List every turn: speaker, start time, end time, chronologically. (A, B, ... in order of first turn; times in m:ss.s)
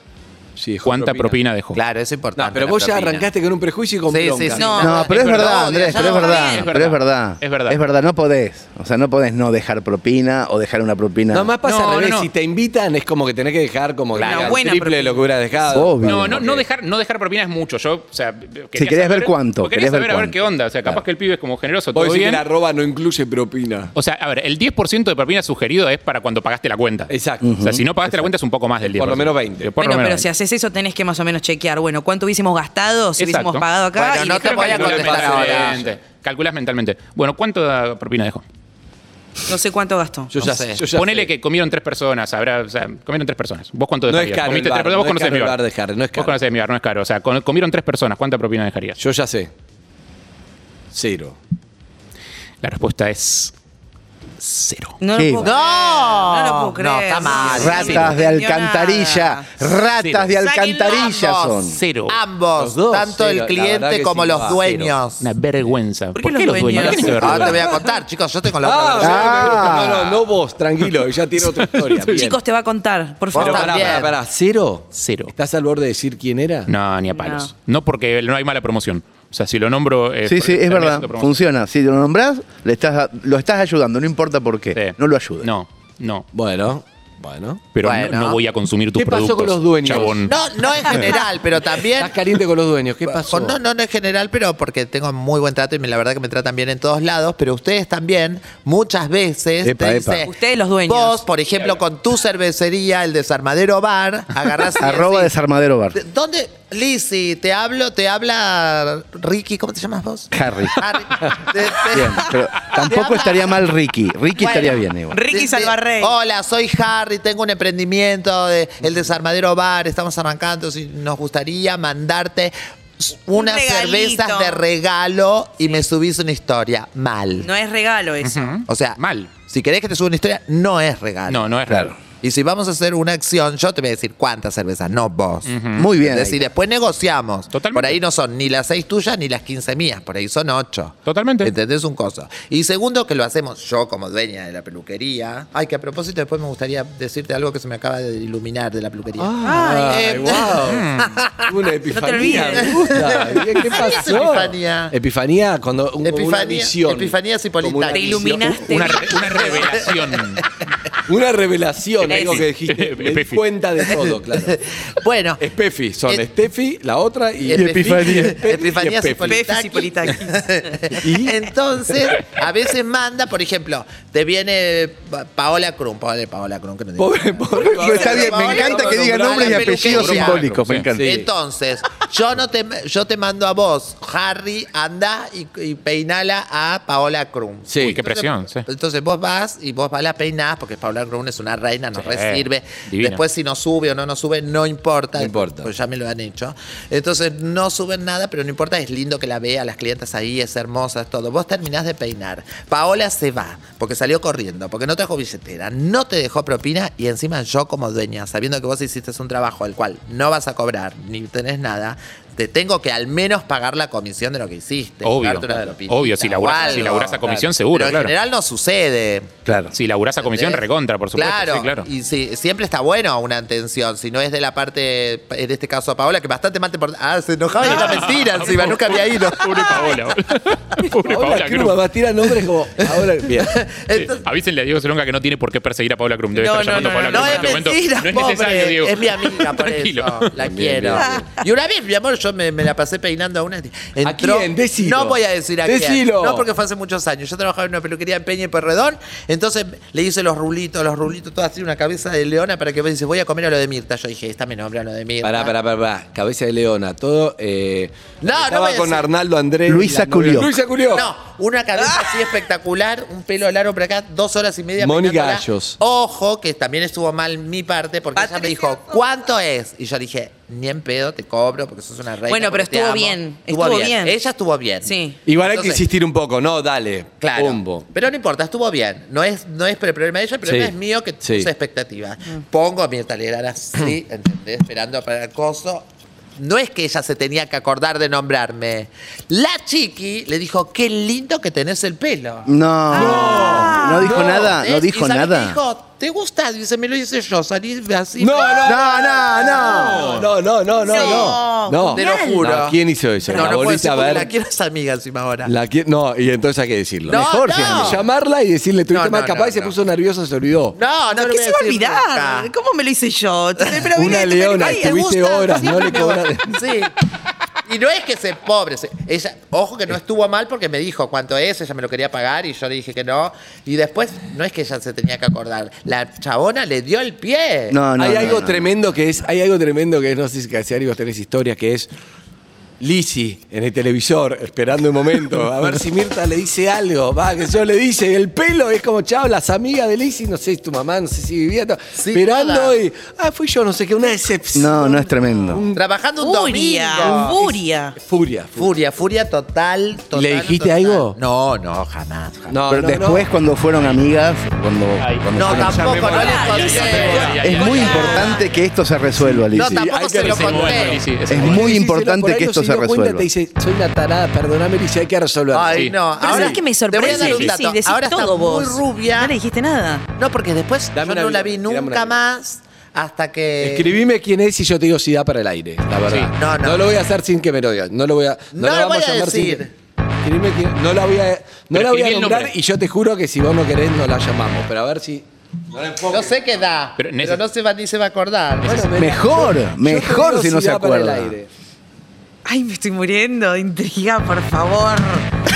0:00.6-0:01.4 A
0:00.8-0:01.8 B
0:01.7-0:03.3 C
0:02.4-0:04.8 A
0:04.1-0:06.4 C
0:04.5-0:06.7 D
0:04.8-0:11.5 E
0:05.1-0:07.8 B
0:11.3-0:16.6 A
0:11.6-0:12.3 B
0:14.1-0:14.5 C
0:14.2-0:14.4 B
0:14.2-0:15.3 D
0:15.7-0:16.5 E
0:16.0-0:22.4 B
0:18.8-0:21.0 E
0:21.9-0:23.9 A
0:24.0-0:30.2 B
0:27.1-0:27.5 A
0:27.4-0:27.8 E
0:28.8-0:29.7 A
0:29.8-0:34.6 D
0:33.2-0:38.4 B
0:33.9-0:35.8 C
0:34.4-0:35.9 A
0:39.5-0:40.3 D
0:40.3-0:41.3 A
0:40.4-0:40.8 C
0:40.9-0:45.6 B
0:44.1-0:46.4 A
0:46.1-0:49.0 B
0:49.0-0:49.5 A
0:50.9-0:51.4 A
0:52.6-0:53.5 B
0:54.4-0:55.0 B
0:55.0-0:59.5 D
0:55.2-0:55.5 E
0:55.4-0:58.1 C
0:57.5-1:01.8 E
0:57.7-0:58.0 B
1:00.0-1:00.3 B
1:00.4-1:05.2 C
1:00.5-1:01.0 D
1:01.7-1:02.2 B
1:02.6-1:04.9 A
1:05.2-1:07.6 B
1:06.1-1:07.7 D
1:06.8-1:07.6 A
1:07.1-1:09.8 C
1:08.6-1:12.4 A
1:09.0-1:10.2 E
1:11.4-1:12.3 B
1:12.1-1:14.0 D
1:13.3-1:14.1 C
1:13.3-1:16.7 A
1:14.9-1:15.3 B
1:16.7-1:21.3 B
1:17.1-1:17.5 D
1:20.2-1:25.5 E
1:24.7-1:26.2 B
1:26.3-1:27.6 A
1:27.7-1:30.3 B
1:27.8-1:28.4 C
1:29.0-1:30.3 A
1:30.2-1:32.1 C
1:30.9-1:31.2 D
1:32.0-1:33.6 A
1:33.2-1:40.3 C
1:39.6-1:40.2 E
1:40.2-1:41.2 D
1:40.8-1:45.3 C
1:44.8-1:46.0 E
1:45.9-1:53.5 C
1:50.3-1:50.8 E
1:51.8-1:55.2 E
1:54.4-2:07.5 C
1:55.1-1:56.1 D
2:03.3-2:04.6 D
2:07.4-2:08.6 D
2:08.2-2:09.3 B
2:08.6-2:11.5 C
2:11.3-2:11.9 B
2:11.7-2:11.9 E
2:12.2-2:31.5 C
2:15.4-2:15.9 B
2:15.8-2:16.4 E
2:17.5-2:18.0 B
2:21.0-2:21.5 B
2:29.2-2:30.9 A
2:29.4-2:30.6 D
2:30.6-2:31.1 B
2:31.5-2:38.9 A
2:31.8-2:33.1 D
2:32.7-2:34.9 C
2:36.0-2:38.6 C
2:37.9-2:39.3 D
2:38.6-2:40.4 B
2:39.3-2:39.8 C
2:41.0-2:44.6 A
2:42.0-2:43.4 B
2:42.0-2:42.5 D
2:44.5-2:45.4 C
2:45.4-2:49.4 A
2:47.4-3:00.4 C
2:47.5-2:48.4 E
2:49.2-2:50.7 D
2:51.0-2:51.3 A
2:57.0-3:00.2 A
2:57.6-3:01.1 E
2:59.9-3:00.9 B
3:01.0-3:01.2 A
3:01.0-3:39.3 C
3:07.7-3:08.0 A
3:07.8-3:08.6 B
3:11.9-3:13.2 B
3:15.2-3:15.7 A
3:35.0-3:38.1 B
3:35.5-3:35.7 A
3:37.0-3:37.4 A
3:39.4-3:39.7 E
3:39.7-3:41.8 B
3:40.2-3:49.8 C
3:47.6-3:51.8 B
3:50.8-3:53.6 A
3:53.4-3:54.2 C
3:53.9-4:00.2 B
3:56.3-3:57.8 D
3:56.8-4:15.5 C
4:00.4-4:01.2 A
4:01.0-4:01.2 D
4:04.0-4:06.5 A
4:15.2-4:21.1 A
4:18.2-4:19.1 C
4:19.7-4:20.5 E
4:20.9-4:35.8 C
4:24.8-4:25.8 A
4:28.1-4:29.0 D
4:32.2-4:34.2 D
4:34.8-4:35.2 D
4:35.2-4:37.8 A
4:37.2-4:45.8 C
4:40.4-4:41.5 A
4:46.4-4:52.5 C
4:52.5-4:55.6 E
4:52.9-4:54.4 A
4:52.9-4:54.2 D
4:53.2-5:00.2 C
4:58.2-5:04.3 A
4:58.6-5:00.2 E
5:00.7-5:02.5 D
5:00.8-5:05.5 C
5:03.3-5:03.6 D
5:05.4-5:10.8 A
5:07.1-5:08.0 C
5:07.1-5:08.0 E
5:08.9-5:09.8 C
5:10.7-5:12.5 C
5:11.1-5:16.3 D
5:13.9-5:16.5 A
5:16.4-5:16.9 C
5:17.6-5:27.8 C
5:27.7-5:28.6 E
5:28.0-5:31.9 A
5:32.8-5:45.8 A
5:41.9-5:42.8 C
5:44.5-5:45.6 E
5:45.7-5:47.4 C
5:46.2-5:47.9 D
5:47.0-5:48.7 A
5:48.6-5:52.6 C
5:50.1-5:51.2 A
5:52.5-5:53.3 A
5:52.7-5:56.1 E
5:55.0-5:58.2 B
5:55.3-5:58.0 C
5:55.4-5:57.8 A
5:56.0-5:58.5 D
5:57.4-5:59.8 E
5:59.2-6:06.6 A
5:59.5-6:01.0 C
6:00.2-6:01.8 B
6:01.3-6:03.3 E
6:05.5-6:09.3 C
6:06.2-6:10.1 D
6:07.0-6:07.5 B
6:10.1-6:13.9 C
6:10.9-6:12.2 A
6:13.6-6:19.7 A
6:16.3-6:16.9 C
6:18.5-6:19.7 C
6:20.2-6:26.3 A
6:21.7-6:22.5 B
6:26.1-6:28.9 C
6:27.0-6:27.4 B
6:28.6-6:31.5 A
6:29.0-6:31.3 E
6:32.4-6:35.3 D